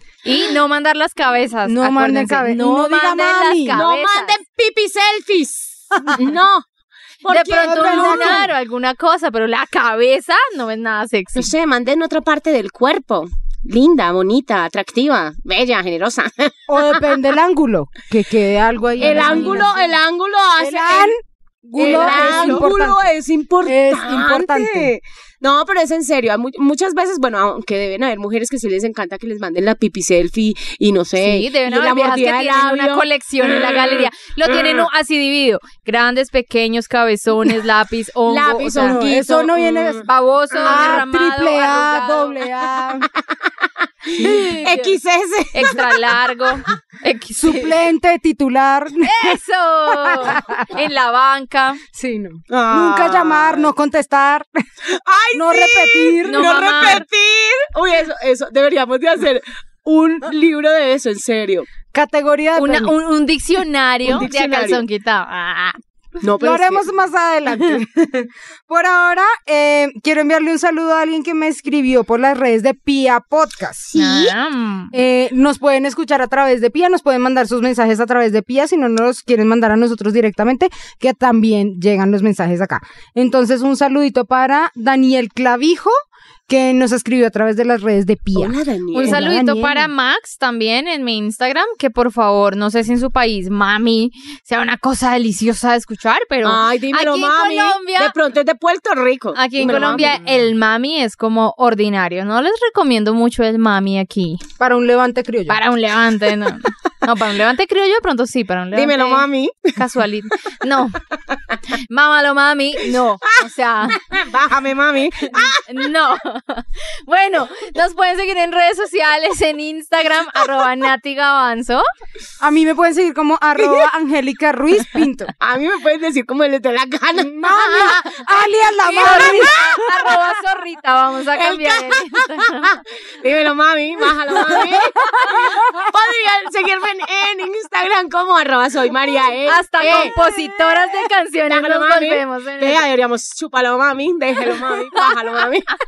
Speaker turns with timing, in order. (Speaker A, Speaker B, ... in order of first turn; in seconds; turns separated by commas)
Speaker A: 0.2-4.4, Speaker B: 1.6-3.8, Speaker C: 3.7-6.6, Speaker C: 7.2-8.5, Speaker A: 7.3-11.5, Speaker B: 7.5-8.5, Speaker C: 11.3-17.0, Speaker B: 16.7-19.7, Speaker A: 19.0-19.9, Speaker C: 19.0-21.1, Speaker B: 20.6-23.1, Speaker A: 21.8-22.6, Speaker C: 21.8-34.9, Speaker B: 23.6-24.9, Speaker A: 31.2-39.0, Speaker C: 38.3-41.0, Speaker B: 38.8-40.1, Speaker A: 40.0-42.4, Speaker B: 40.6-43.1, Speaker C: 43.0-45.9, Speaker A: 44.2-45.0, Speaker A: 45.5-47.8, Speaker B: 47.4-49.4, Speaker A: 49.0-51.8, Speaker B: 49.9-50.8, Speaker B: 51.9-54.5, Speaker C: 52.5-53.7, Speaker C: 54.8-61.7, Speaker B: 55.3-57.0, Speaker A: 56.3-57.0, Speaker B: 61.9-63.0, Speaker A: 62.6-65.8, Speaker C: 64.0-64.8, Speaker C: 66.2-66.8, Speaker B: 66.4-74.3, Speaker A: 74.0-74.9, Speaker C: 74.0-74.2, Speaker B: 74.9-85.9, Speaker B: 86.5-89.9, Speaker C: 88.3-89.2, Speaker A: 88.9-98.1, Speaker C: 96.4-100.2, Speaker A: 99.3-104.4, Speaker B: 104.6-105.6, Speaker A: 105.5-111.0, Speaker C: 108.7-109.8, Speaker A: 111.9-114.0, Speaker C: 113.9-115.7, Speaker A: 115.2-121.8, Speaker B: 122.4-125.3, Speaker C: 123.6-123.9, Speaker C: 125.4-128.2, Speaker B: 127.2-130.1, Speaker C: 128.8-129.9, Speaker A: 128.9-132.8, Speaker C: 131.3-140.1, Speaker B: 134.5-135.7, Speaker A: 139.4-142.8, Speaker C: 141.5-145.7